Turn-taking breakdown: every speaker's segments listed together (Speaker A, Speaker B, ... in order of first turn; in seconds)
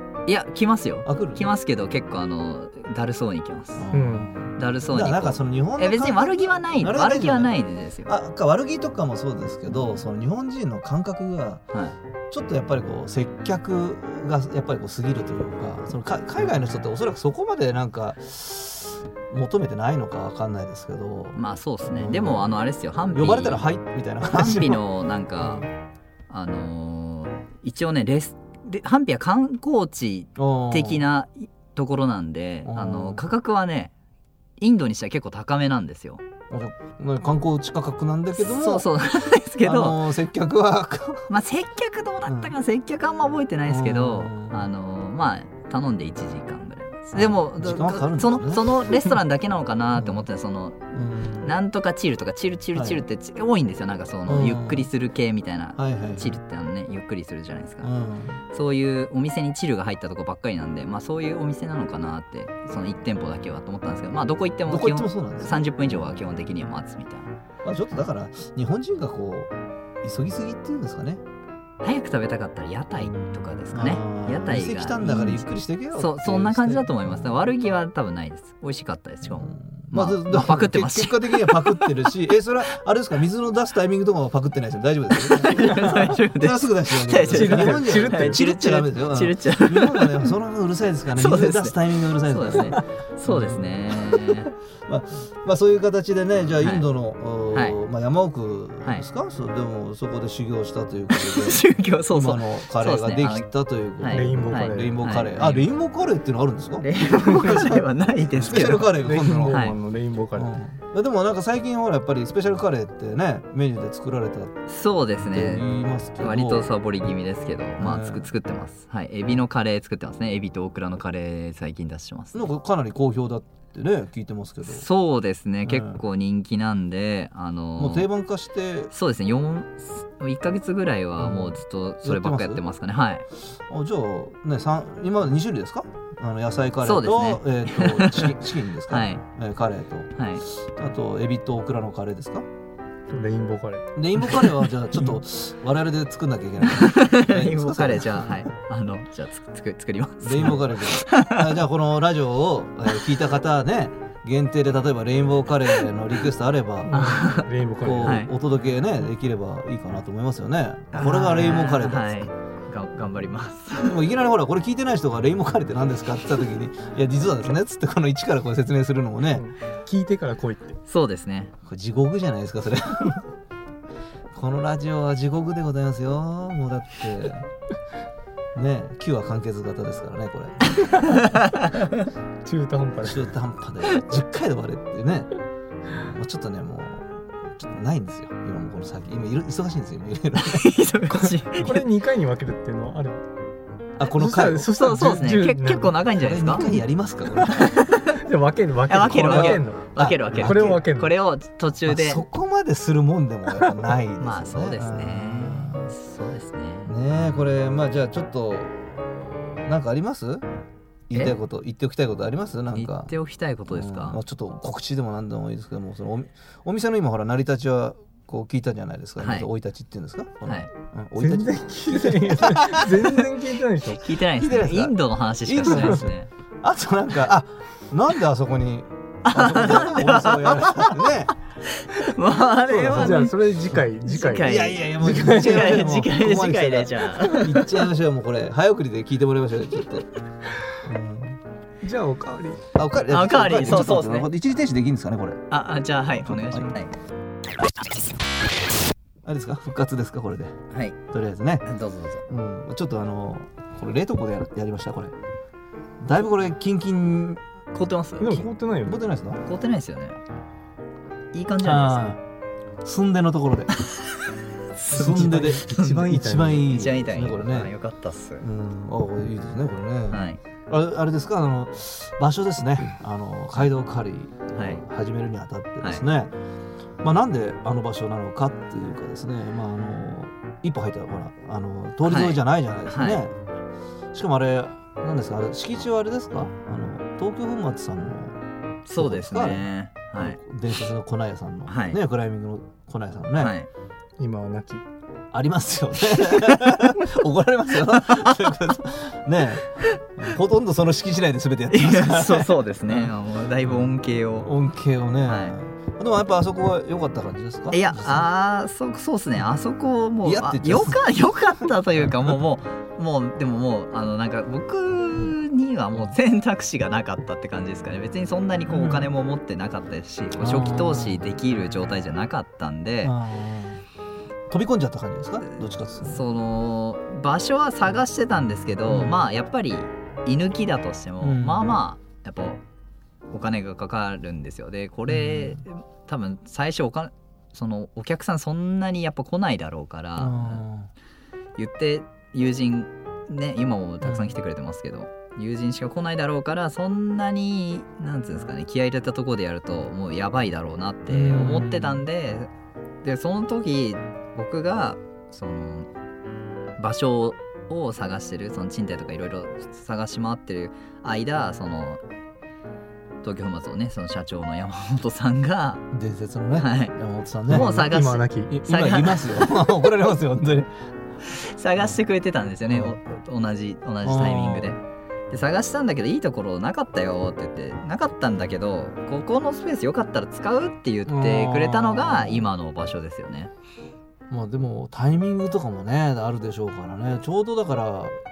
Speaker A: 0.3-3.9, 4.6-8.1, 21.4-23.6, 24.3-25.7, 26.3-33.9, 34.6-36.2, 38.4-40.0, 41.3-50.8, 51.4-57.9, 58.5-67.3, 71.8-82.1, 85.2-90.3, 91.2-94.5, 96.6-96.9, 97.5-97.8, 101.1-103.5, 104.0-105.7, 106.8-109.0, 109.5-109.8, 114.7-115.7, 116.2-122.5, 124.7-128.1, 128.9-133.2, 136.8-138.4, 138.9-139.2, 140.2-140.4, 146.7-151.6, 156.9-157.5, 158.0-158.3, 160.9-164.0, 170.9-171.5, 180.8-182.0, 190.4-191.8, 194.7-196.7, 197.4-198.2, 198.9-202.2, 204.2-206.9, 212.7-214.2, 219.2-219.5, 224.0-226.3, 229.3-231.1, 231.7-233.3, 234.1-237.5, 243.1-244.3, 245.5-246.9, 250.7-251.0, 251.7-252.2, 257.7-258.5, 259.5-260.2, 261.3-262.0, 263.9-264.1, 264.8-266.1, 266.6-268.4, 270.1-270.4, 274.6-274.8, 282.0-283.2, 288.9-290.4, 291.7-292.0, 293.4-293.7, 296.2-296.9, 297.9-298.4, 301.7-304.5, 305.3-305.6, 307.7-323.1, 326.0-332.6, 333.3-340.6, 341.6-352.5, 353.0-355.9, 356.8-362.0, 363.2-365.9, 366.6-366.9, 367.5-369.7, 371.3-383.5
Speaker B: 1.1-1.5, 3.8-11.6, 12.3-22.5, 23.1-24.8, 30.4-31.1, 32.6-33.2, 36.5-38.9, 39.6-41.3, 42.3-42.5, 43.7-44.7, 47.1-48.9, 50.0-50.3, 50.9-51.5, 52.8-53.0, 54.3-54.9, 55.8-56.4, 57.8-58.4, 64.7-66.1, 67.6-69.5, 70.0-71.2, 73.7-77.5, 79.2-109.7, 110.3-114.5, 115.3-116.7, 117.8-118.3, 122.3-124.9, 125.6-126.0, 127.8-128.9, 131.2-132.6, 133.7-142.5, 144.0-148.5, 150.2-157.3, 157.8-162.3, 163.8-169.4, 171.7-173.3, 174.3-177.5, 178.6-181.1, 183.0-185.3, 185.9-190.8, 194.0-194.7, 196.2-197.8, 199.1-200.7, 201.9-205.9, 206.9-210.4, 211.1-213.1, 213.7-223.1, 224.4-231.3, 232.7-233.3, 234.4-240.1, 240.8-241.4, 242.8-245.4, 246.2-246.7, 249.2-250.6, 251.1-251.6, 252.3-255.2, 256.0-257.4, 258.9-259.4, 261.6-262.2, 262.8-263.7, 264.9-267.7, 268.4-276.3, 277.0-283.3, 284.1-288.4, 288.9-293.5, 295.3-303.1, 304.4-308.3, 310.2-311.0, 312.0-312.4, 318.7-319.1, 320.4-321.2, 323.0-323.8, 324.5-326.2, 328.9-329.2, 331.2-331.8, 335.1-335.6, 340.2-340.9, 344.0-344.4, 351.1-352.1, 365.9-367.9, 368.5-370.7, 372.7-373.0, 374.0-374.8, 381.1-382.5, 384.3-388.2
Speaker C: 3.9-4.3, 87.3-88.4, 104.1-105.0, 109.0-110.5, 143.1-144.4, 156.9-158.2, 169.3-170.8, 182.4-183.2, 191.5-193.2, 194.2-196.0, 198.2-199.8, 200.4-201.1, 221.2-224.0, 232.7-235.9, 241.8-242.6, 258.2-259.0, 264.9-266.7, 294.2-294.8, 367.5-368.6